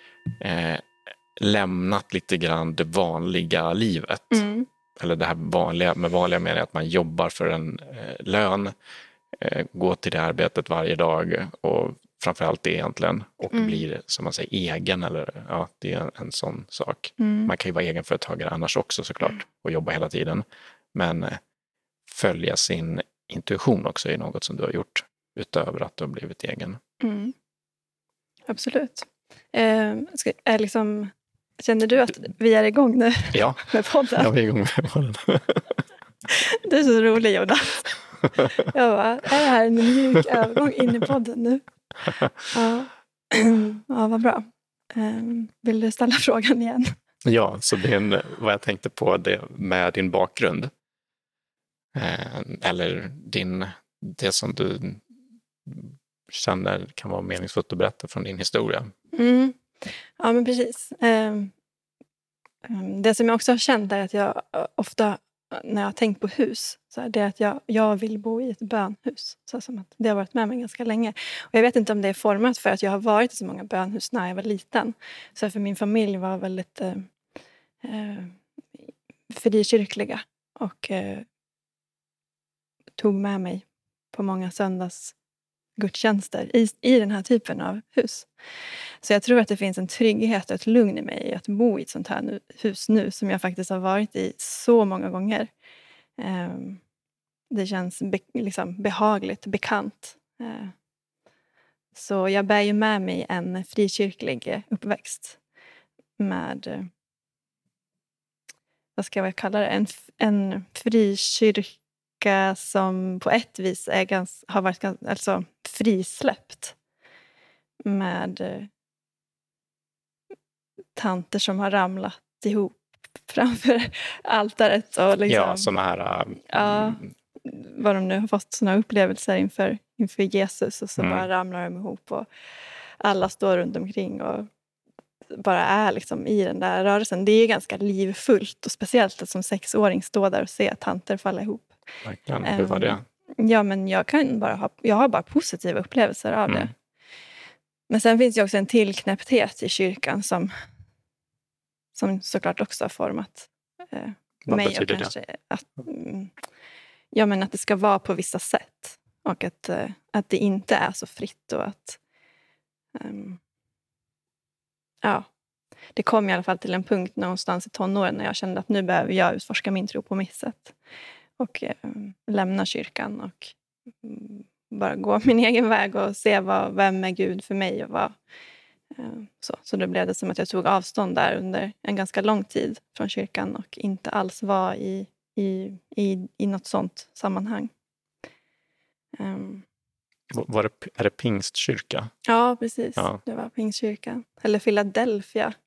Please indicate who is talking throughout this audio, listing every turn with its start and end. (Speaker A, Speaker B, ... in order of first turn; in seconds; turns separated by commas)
Speaker A: 0.4-4.5, Speaker B: 4.3-4.7, Speaker A: 5.0-8.7, Speaker A: 9.4-21.4, Speaker B: 13.5-13.8, Speaker B: 17.2-17.5, Speaker A: 22.1-26.8, Speaker B: 27.0-27.4, Speaker B: 28.5-34.3, Speaker A: 33.3-35.8, Speaker B: 36.3-41.6, Speaker B: 42.5-46.9, Speaker A: 47.2-50.7, Speaker A: 52.0-55.0, Speaker A: 55.7-58.9, Speaker B: 59.1-59.7, Speaker B: 60.2-61.5, Speaker B: 62.6-77.1, Speaker B: 77.8-81.3, Speaker B: 83.0-85.2, Speaker B: 85.8-88.3, Speaker B: 89.0-95.5, Speaker B: 96.2-96.8, Speaker B: 97.5-100.7, Speaker B: 101.9-105.4, Speaker B: 106.2-106.9, Speaker B: 109.0-116.8, Speaker B: 117.8-118.7, Speaker B: 121.0-125.7, Speaker A: 125.3-127.1, Speaker B: 126.5-132.3, Speaker A: 131.0-131.3, Speaker B: 133.0-134.5, Speaker B: 135.3-141.7, Speaker A: 142.0-143.0, Speaker B: 142.4-146.7, Speaker B: 147.9-150.5, Speaker B: 151.9-156.3, Speaker A: 154.5-155.1, Speaker B: 157.1-162.0, Speaker B: 162.9-163.4, Speaker B: 165.0-165.3, Speaker B: 165.9-170.8, Speaker B: 171.4-178.2, Speaker B: 178.9-187.7, Speaker B: 189.2-189.7, Speaker A: 190.3-192.1, Speaker B: 192.3-195.6